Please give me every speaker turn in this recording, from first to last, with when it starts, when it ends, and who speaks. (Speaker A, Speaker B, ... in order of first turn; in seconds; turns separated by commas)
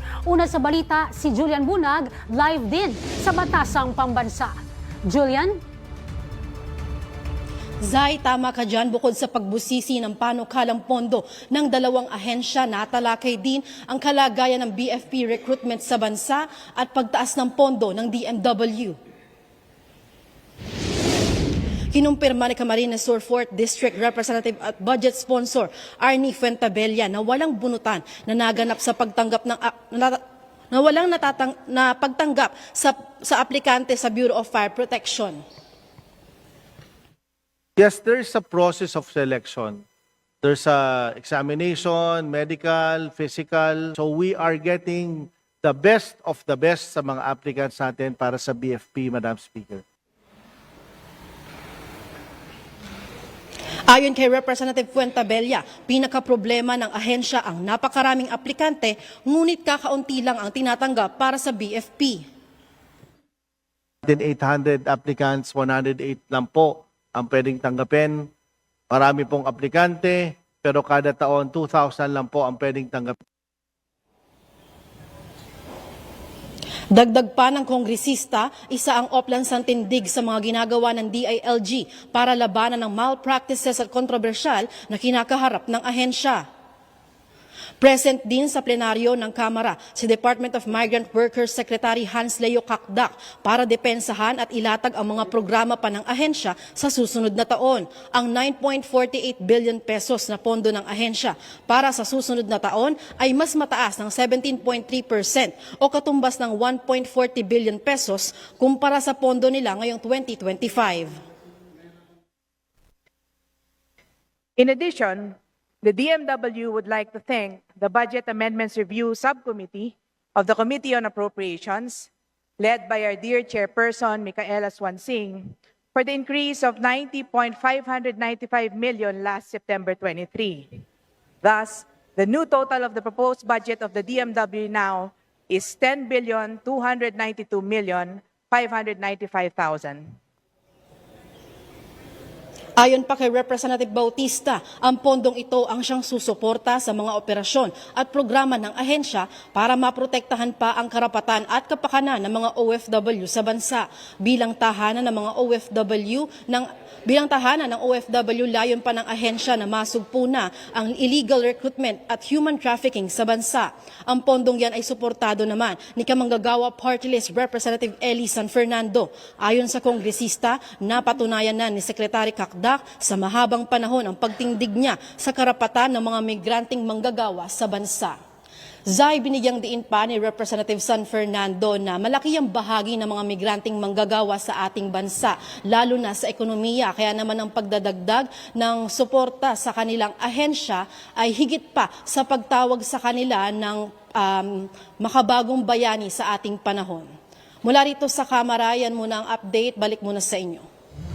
Speaker A: 0.3-4.5, Speaker A: 5.1-5.6, Speaker B: 7.8-19.0, Speaker B: 21.9-35.4, Speaker C: 37.8-39.9, Speaker C: 40.4-49.8, Speaker B: 53.9-62.3, Speaker C: 64.0-68.3, Speaker C: 68.9-73.2, Speaker B: 76.9-86.5, Speaker B: 87.8-111.1, Speaker D: 114.6-130.8, Speaker D: 131.4-140.1, Speaker B: 142.8-178.2, Speaker B: 178.9-197.1, Speaker B: 197.6-200.7